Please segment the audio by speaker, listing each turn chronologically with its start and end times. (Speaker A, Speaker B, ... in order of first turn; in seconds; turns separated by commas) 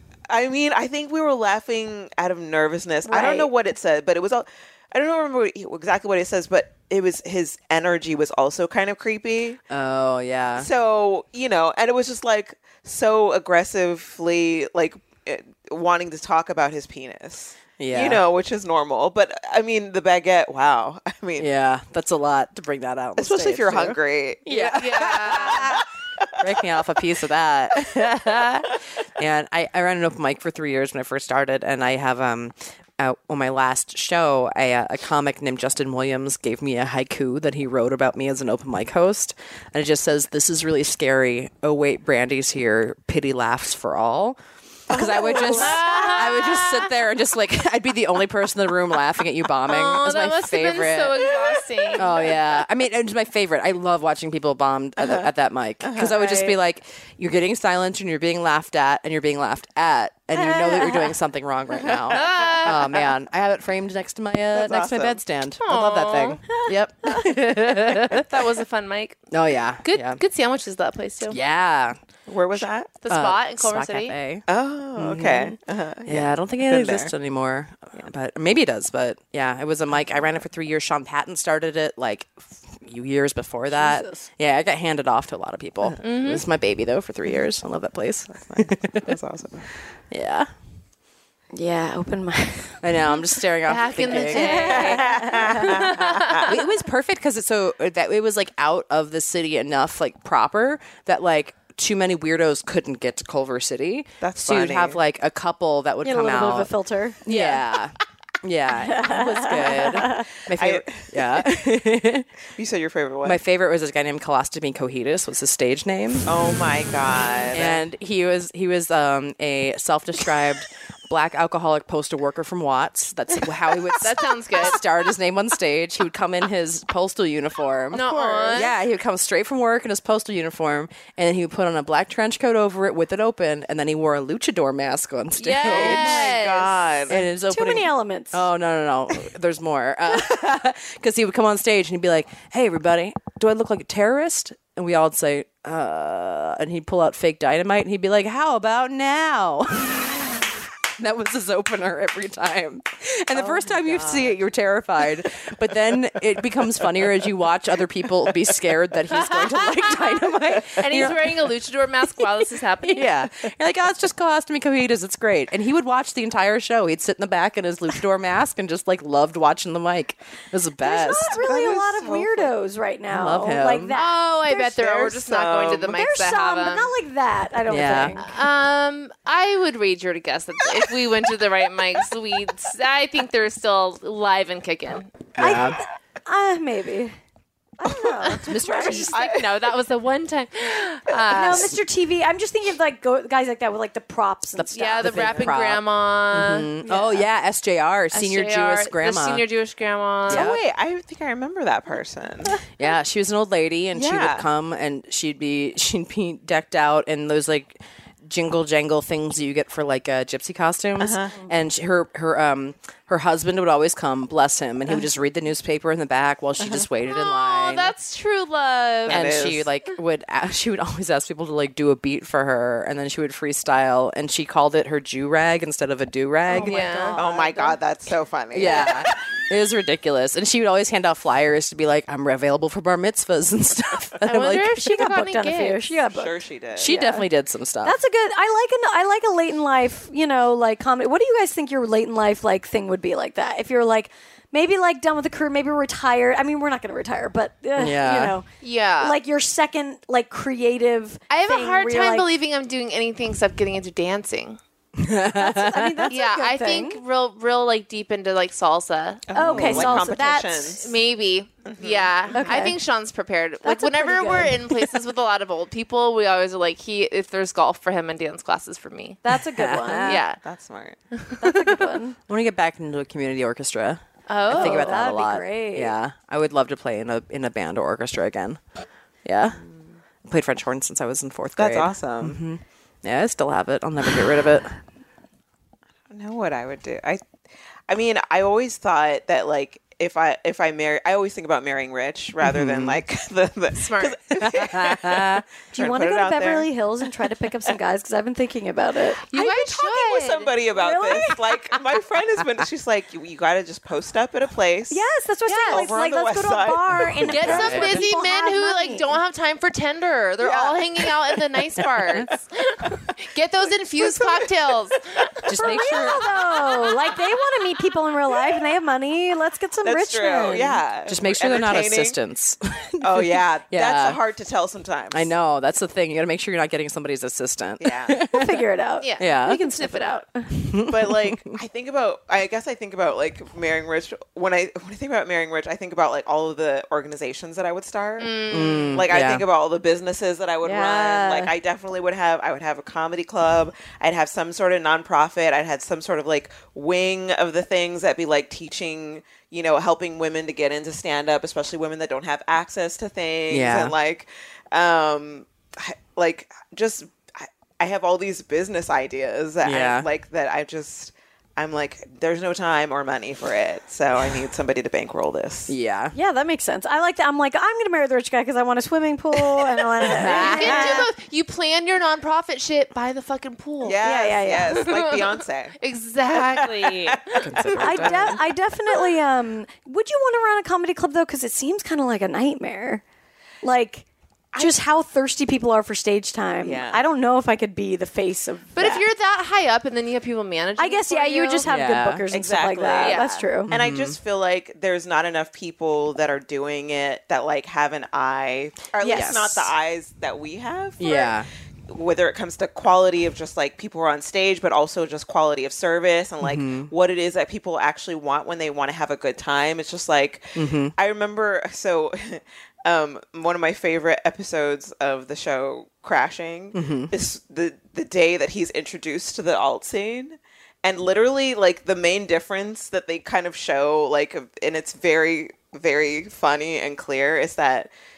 Speaker A: 0.3-9.6, Speaker B: 3.0-3.5, Speaker C: 9.7-10.7, Speaker A: 10.6-21.5, Speaker C: 17.8-18.2, Speaker C: 21.4-25.9, Speaker A: 23.2-26.8, Speaker D: 24.6-25.8, Speaker C: 26.4-51.2, Speaker A: 27.7-28.0, Speaker A: 44.9-45.3, Speaker B: 45.0-46.1, Speaker D: 45.4-46.9, Speaker D: 49.6-52.4, Speaker C: 51.9-68.3, Speaker A: 55.0-55.3, Speaker A: 55.8-56.5, Speaker B: 60.3-61.1, Speaker A: 61.7-63.0, Speaker D: 62.1-62.9, Speaker A: 64.5-65.2, Speaker D: 65.6-66.4, Speaker D: 68.1-69.2, Speaker C: 69.3-70.2, Speaker D: 69.8-71.4, Speaker C: 71.3-72.0, Speaker A: 72.3-72.9, Speaker D: 73.0-74.1, Speaker C: 73.1-74.5, Speaker A: 74.5-77.1, Speaker C: 75.0-89.1, Speaker D: 86.0-86.4, Speaker A: 88.3-89.7, Speaker C: 90.1-90.5, Speaker B: 91.5-92.9, Speaker C: 92.8-94.8, Speaker D: 93.7-96.6, Speaker B: 94.1-95.9, Speaker A: 94.5-96.5, Speaker C: 96.4-106.7, Speaker A: 104.2-105.0, Speaker B: 106.0-107.2, Speaker C: 107.2-112.3, Speaker A: 107.3-107.6, Speaker B: 108.7-110.3, Speaker A: 110.5-111.7, Speaker A: 112.5-113.4, Speaker C: 113.2-116.3, Speaker A: 116.2-117.8, Speaker C: 117.5-136.3, Speaker D: 124.0-124.8, Speaker D: 127.9-128.8, Speaker D: 135.4-136.9, Speaker A: 135.6-137.2, Speaker C: 137.1-150.4, Speaker B: 137.5-138.4, Speaker C: 151.0-161.4, Speaker A: 153.3-154.4, Speaker D: 159.1-160.2, Speaker D: 160.7-163.1, Speaker C: 162.8-171.3, Speaker B: 170.8-174.2, Speaker A: 171.3-172.5, Speaker C: 173.1-173.9, Speaker D: 173.9-176.9, Speaker A: 174.5-176.0, Speaker B: 175.9-178.3, Speaker C: 177.7-178.2, Speaker D: 178.2-185.1, Speaker C: 185.4-185.8, Speaker B: 185.4-187.1, Speaker B: 187.8-189.1, Speaker A: 187.8-189.7, Speaker D: 188.2-191.8, Speaker C: 188.4-189.1, Speaker B: 191.3-195.2, Speaker C: 194.5-199.4, Speaker D: 194.7-196.7, Speaker A: 195.1-195.5, Speaker B: 196.8-197.3, Speaker D: 198.1-200.5, Speaker C: 200.3-200.6, Speaker A: 200.3-202.6, Speaker C: 202.7-217.9, Speaker A: 203.9-204.5, Speaker A: 211.0-211.3, Speaker A: 216.6-216.9, Speaker D: 217.1-219.3, Speaker A: 219.1-219.7, Speaker C: 219.1-226.8, Speaker B: 226.5-227.8, Speaker D: 226.6-227.2, Speaker A: 227.1-229.1, Speaker C: 228.5-234.9, Speaker D: 234.2-235.9, Speaker B: 234.8-237.3, Speaker A: 236.1-236.9, Speaker C: 236.8-238.0, Speaker B: 237.8-248.4, Speaker C: 247.8-248.4, Speaker D: 248.6-249.2, Speaker B: 249.0-252.3, Speaker D: 251.3-254.6, Speaker C: 255.0-256.1, Speaker B: 255.3-257.0, Speaker D: 256.1-259.3, Speaker A: 259.3-260.9, Speaker B: 259.3-260.2, Speaker C: 259.4-260.0, Speaker D: 259.9-269.2, Speaker A: 261.6-262.5, Speaker B: 262.3-262.8, Speaker B: 263.6-264.9, Speaker B: 269.2-270.2, Speaker C: 269.5-270.2, Speaker D: 270.1-270.4, Speaker A: 270.4-271.0, Speaker D: 271.1-271.8, Speaker B: 271.4-272.2, Speaker C: 272.3-278.6, Speaker D: 274.3-274.9, Speaker B: 274.5-275.9, Speaker C: 279.2-279.6, Speaker C: 280.2-284.7, Speaker A: 281.6-282.4, Speaker A: 286.1-287.2, Speaker A: 287.9-296.7, Speaker C: 292.4-293.0, Speaker D: 293.8-294.2, Speaker C: 294.4-295.4, Speaker B: 295.7-299.7, Speaker D: 299.3-300.5, Speaker A: 299.3-305.1, Speaker B: 300.7-301.4, Speaker B: 304.9-309.1, Speaker D: 305.5-305.8, Speaker A: 305.7-307.7, Speaker C: 307.2-308.0, Speaker D: 307.3-315.8, Speaker A: 310.4-311.4, Speaker A: 313.9-314.8, Speaker C: 315.4-316.2, Speaker B: 315.6-320.8, Speaker A: 319.8-322.2, Speaker C: 321.1-324.2, Speaker A: 323.0-325.3, Speaker C: 325.1-328.6, Speaker A: 327.8-328.2, Speaker B: 328.3-330.4, Speaker D: 329.0-330.2, Speaker C: 329.2-329.6, Speaker C: 330.5-331.5, Speaker A: 330.8-365.7, Speaker D: 338.2-339.0, Speaker C: 338.5-339.4, Speaker B: 340.6-341.5, Speaker C: 353.5-353.9, Speaker C: 359.6-360.1, Speaker C: 365.7-366.1, Speaker B: 366.1-371.1, Speaker C: 370.0-370.9, Speaker D: 370.2-374.0, Speaker A: 373.8-375.8, Speaker B: 374.0-374.9, Speaker D: 374.7-377.4, Speaker A: 376.3-378.4, Speaker C: 377.4-378.4, Speaker B: 377.8-383.0, Speaker B: 383.6-389.0, Speaker A: 386.6-387.0, Speaker D: 388.8-391.7, Speaker B: 390.8-393.7, Speaker C: 391.6-392.2, Speaker A: 392.3-401.3, Speaker D: 393.0-393.4, Speaker C: 393.7-394.2, Speaker B: 399.0-399.4, Speaker C: 399.0-399.7, Speaker C: 401.0-401.5, Speaker A: 401.9-427.9, Speaker C: 406.4-406.9, Speaker C: 410.5-410.9, Speaker C: 416.7-417.1